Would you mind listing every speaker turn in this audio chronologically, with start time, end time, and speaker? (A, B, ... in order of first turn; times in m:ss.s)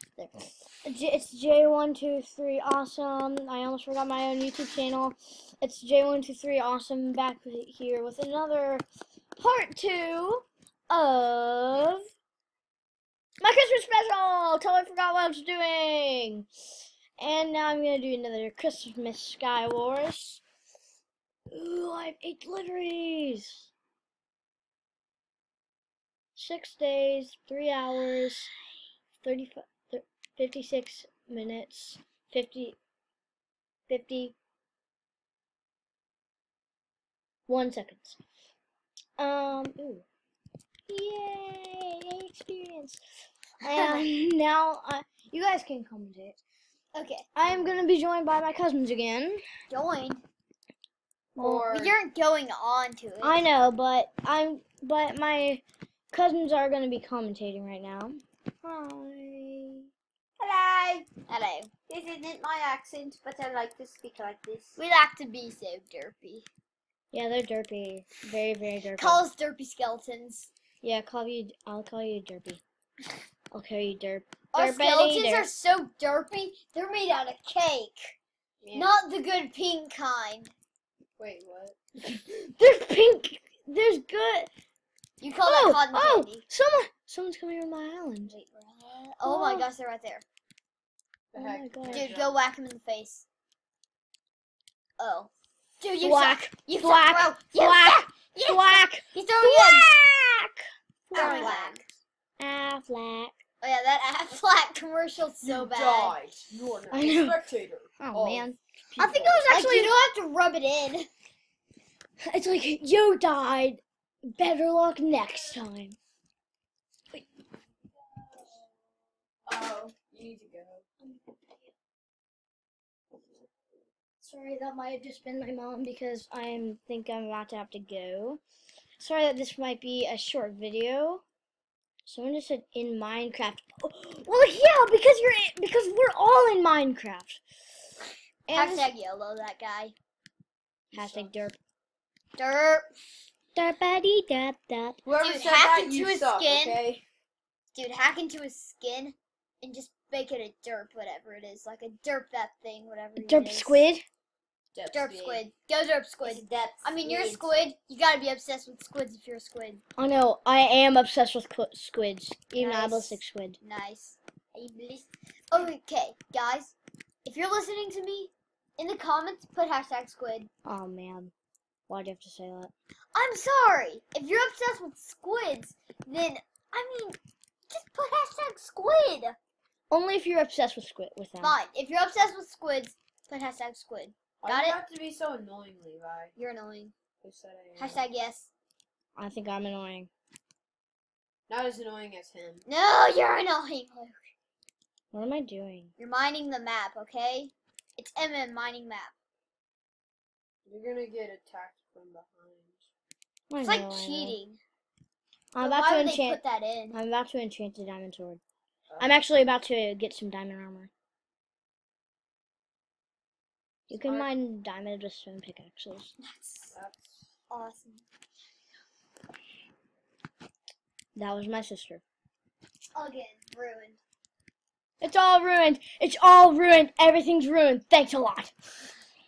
0:00.2-0:08.8 A
0:09.4-0:12.1 A
0:13.4-0:16.5 A
0:17.2-0:20.4 A
0:21.5-0:23.7 A
0:26.4-0:28.5 A
0:29.2-0:32.8 A
0:33.9-0:34.4 A
0:37.5-0:38.2 A
0:39.2-0:40.0 A
0:40.9-0:43.0 A
0:43.6-0:46.4 A
0:43.7-0:44.0 B
0:46.9-0:47.8 B
0:47.4-0:49.4 A
0:49.7-0:50.2 B
0:51.4-0:52.0 C
0:51.4-0:51.7 A
0:51.7-0:53.4 B
0:53.2-0:59.9 A
1:01.2-1:01.7 B
1:01.9-1:04.8 C
1:04.8-1:06.5 B
1:07.1-1:09.2 A
1:09.0-1:10.5 B
1:10.8-1:12.6 A
1:13.5-1:15.5 A
1:14.5-1:18.2 B
1:18.6-1:18.9 C
1:18.7-1:20.5 B
1:21.2-1:21.8 C
1:22.0-1:24.5 A
1:25.2-1:26.4 B
1:25.4-1:28.3 A
1:28.3-1:30.2 B
1:29.2-1:29.7 A
1:31.3-1:32.4 C
1:31.3-1:32.1 A
1:31.9-1:33.3 B
1:35.0-1:39.9 B
1:36.0-1:41.6 A
1:41.1-1:41.8 C
1:41.1-1:41.8 B
1:42.4-1:43.4 A
1:43.6-1:46.2 B
1:45.5-1:49.4 C
1:46.9-1:47.4 A
1:48.0-1:50.1 A
1:49.4-1:51.1 B
1:52.2-1:56.0 A
1:59.5-2:00.9 C
2:04.2-2:08.4 A
2:09.0-2:11.2 A
2:12.0-2:17.4 A
2:18.5-2:18.9 A
2:18.5-2:20.0 B
2:20.9-2:21.3 C
2:20.9-2:21.6 A
2:22.4-2:22.9 B
2:23.6-2:25.0 A
2:25.0-2:27.0 C
2:25.2-2:26.8 B
2:27.8-2:33.8 B
2:33.2-2:34.0 A
2:34.7-2:35.4 C
2:34.9-2:39.8 B
2:36.2-2:37.6 C
2:40.0-2:43.6 A
2:42.6-2:50.5 B
2:50.7-2:51.3 A
2:51.9-2:52.7 A
2:53.2-2:57.2 B
2:57.7-2:59.4 B
2:59.9-3:01.6 A
3:01.4-3:04.8 B
3:04.4-3:06.3 C
3:06.4-3:06.9 B
3:07.2-3:08.0 C
3:07.8-3:08.5 B
3:09.2-3:10.1 A
3:11.5-3:12.6 C
3:12.7-3:14.2 B
3:15.1-3:15.9 A
3:16.0-3:19.1 B
3:20.7-3:22.9 C
3:23.5-3:24.4 A
3:23.6-3:24.6 B
3:25.5-3:28.4 A
3:25.6-3:27.0 B
3:28.9-3:29.2 C
3:29.0-3:30.9 A
3:33.9-3:36.1 A
3:34.0-3:34.3 C
3:36.2-3:36.7 B
3:36.7-3:37.3 C
3:37.5-3:38.0 B
3:41.2-3:42.0 A
3:43.0-3:44.0 B
3:45.0-3:48.5 A